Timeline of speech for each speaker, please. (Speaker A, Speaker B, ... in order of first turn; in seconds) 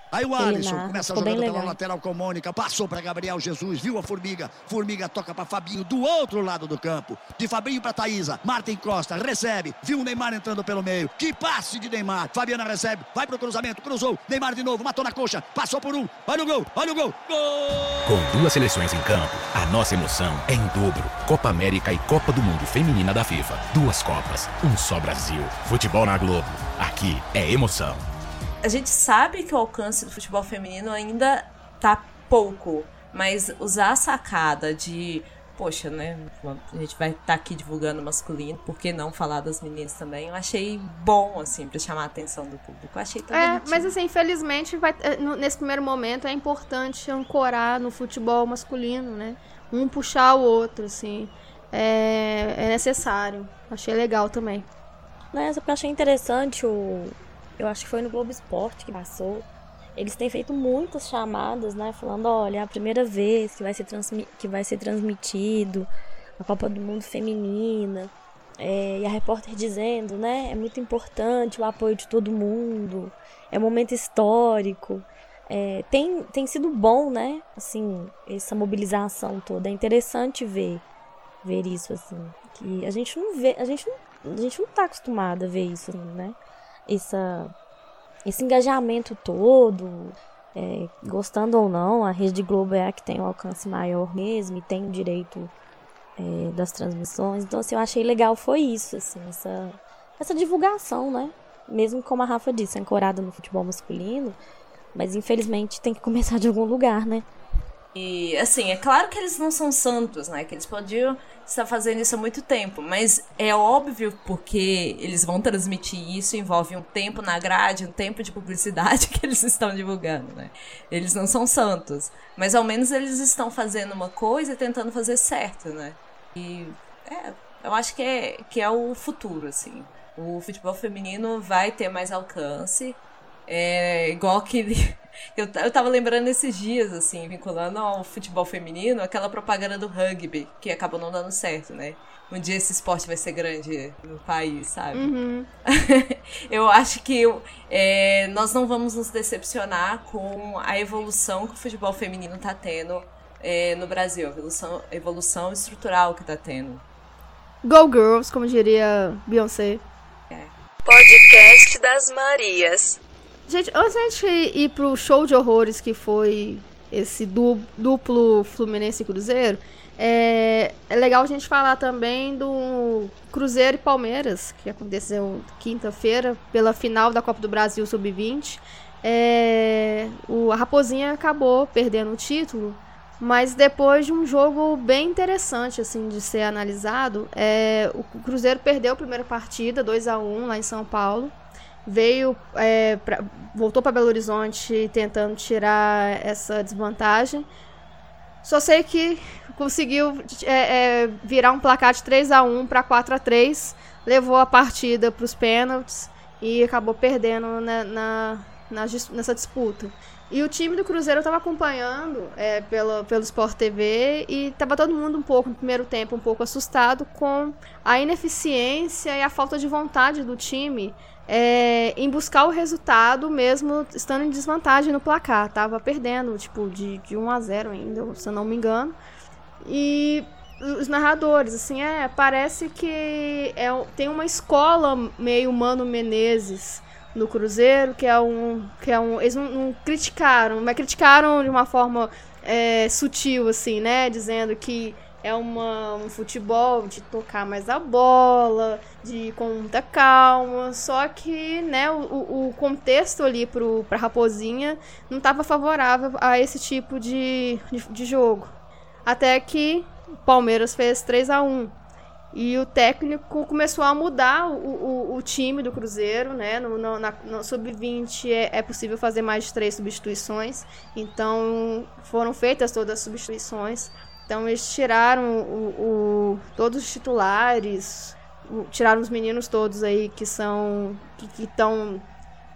Speaker A: 0.1-18.1
Speaker B: 0.4-1.8, 55.3-80.8, 81.4-87.5, 88.2-95.5, 96.2-104.4, 104.9-107.2
Speaker C: 18.1-28.0
Speaker D: 28.6-43.9, 107.9-145.1, 145.7-156.8
Speaker E: 43.3-54.7, 144.9-145.5, 157.6-159.8, 163.5-197.5, 198.4-228.9, 229.6-258.5, 259.0-261.7, 262.3-282.0
Speaker F: 160.8-163.0